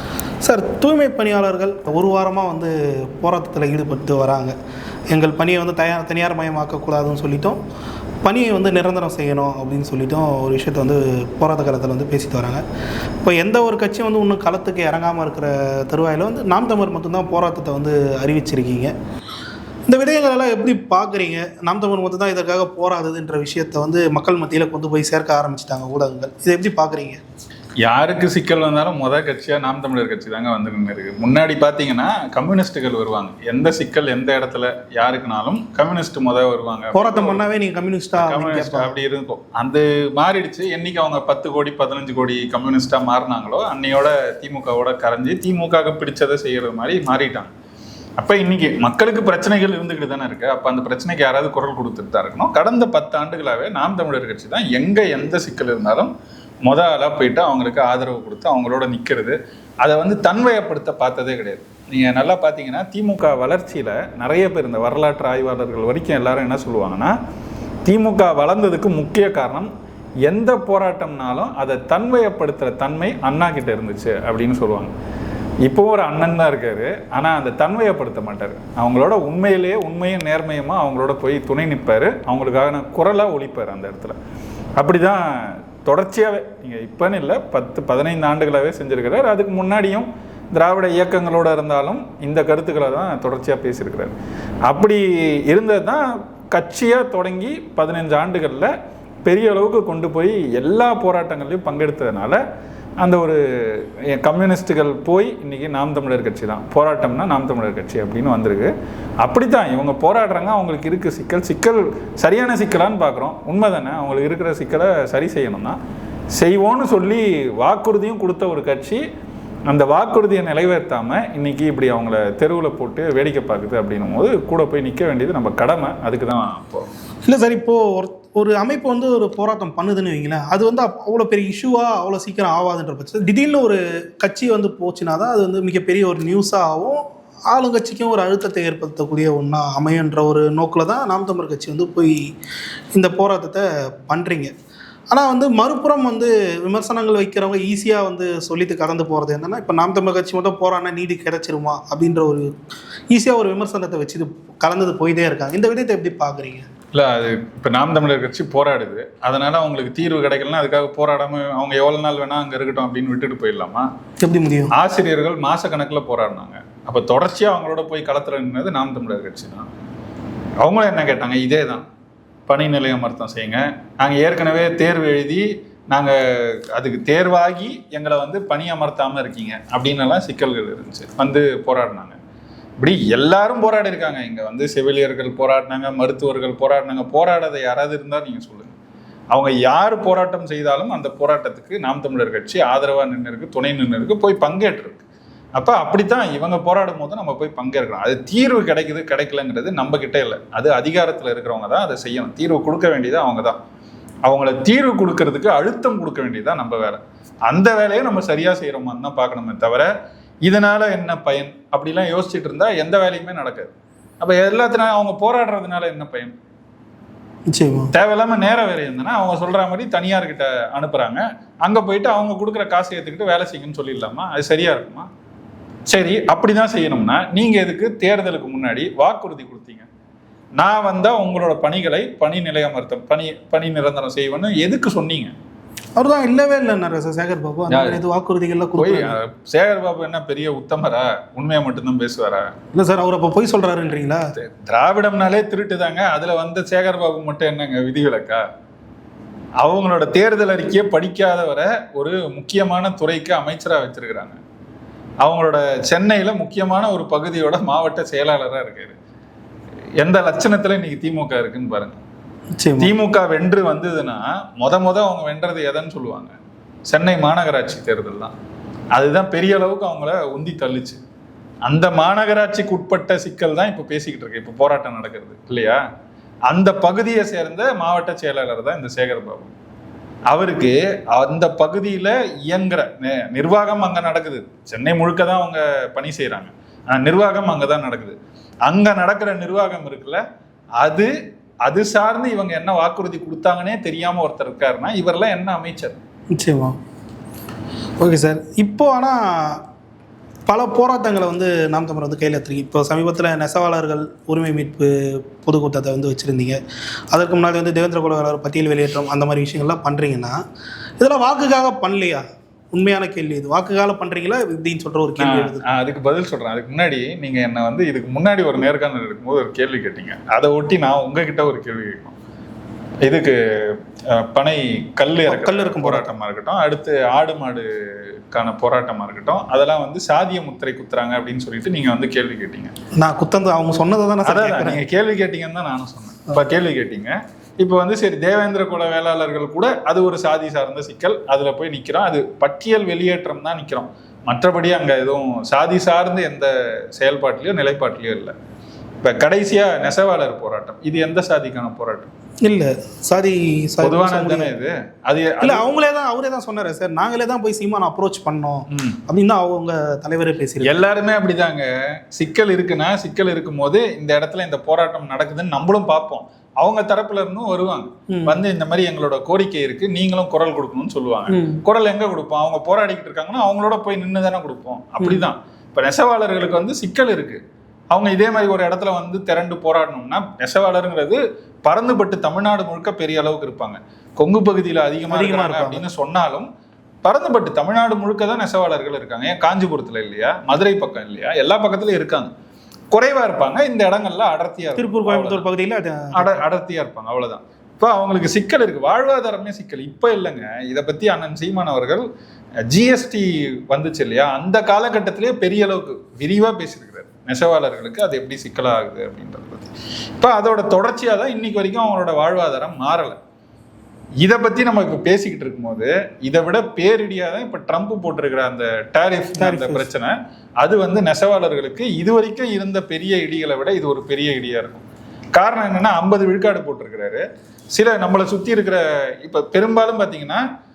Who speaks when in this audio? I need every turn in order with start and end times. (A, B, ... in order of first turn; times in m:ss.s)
0:00.4-0:04.5 A
0:05.1-0:07.6 A
0:08.2-0:12.6 A
0:13.2-0:18.9 A
0:19.9-0:27.2 A
0:27.8-0:37.4 B
0:36.9-0:38.9 A
0:38.2-0:47.5 B
0:48.2-0:56.1 B
0:56.6-1:07.1 B
1:07.8-1:09.7 B
1:10.2-1:14.9 B
1:15.6-1:24.2 B
1:24.8-1:34.1 B
1:34.7-1:38.7 B
1:39.2-1:42.4 B
1:43.0-1:55.8 B
1:56.4-1:59.0 B
1:59.7-2:06.9 B
2:07.2-2:22.3 A
2:22.9-2:24.5 A
2:25.1-2:32.5 A
2:33.1-2:36.7 A
2:36.9-2:43.9 B
2:44.2-2:44.7 A
2:44.7-2:49.7 B
2:50.6-2:51.9 B
2:52.5-3:02.2 B
3:02.8-3:08.8 B
3:09.3-3:15.0 B
3:15.6-3:23.6 B
3:24.2-3:29.9 B
3:30.4-3:36.3 B
3:37.5-3:37.9 A
3:37.9-3:45.1 B
3:45.9-3:49.9 B
3:50.6-3:55.3 B
3:56.0-3:59.2 A
3:57.7-3:58.0 B
3:58.8-4:02.6 B
4:02.7-4:04.3 A
4:04.4-4:08.4 B
4:09.6-4:14.4 B
4:15.2-4:19.0 B
4:20.0-4:22.0 B
4:22.6-4:22.9 A
4:22.8-4:26.3 B
4:26.9-4:28.3 B
4:28.9-4:31.0 B
4:31.6-4:35.8 B
4:36.5-4:39.5 B
4:40.3-4:50.2 B
4:50.8-4:51.1 B
4:51.6-4:56.0 B
4:56.3-4:56.8 A
4:58.0-4:59.6 A
5:00.5-5:06.6 A
5:07.1-5:10.4 A
5:11.0-5:15.6 A
5:15.2-5:22.2 B
5:23.0-5:32.7 B
5:25.3-5:26.1 A
5:33.0-5:34.8 A
5:34.2-5:48.3 B
5:49.0-5:52.1 B
5:52.4-5:54.5 A
5:53.8-5:55.6 B
5:55.4-6:00.8 A
5:58.7-5:59.0 B
6:00.6-6:26.5 B
6:08.1-6:08.4 A
6:11.3-6:11.6 A
6:25.1-6:25.8 A
6:27.0-6:32.3 B
6:32.9-6:35.4 B
6:34.8-6:36.4 A
6:36.1-6:42.0 B
6:42.7-6:53.2 B
6:54.2-7:10.4 B
6:59.4-6:59.9 A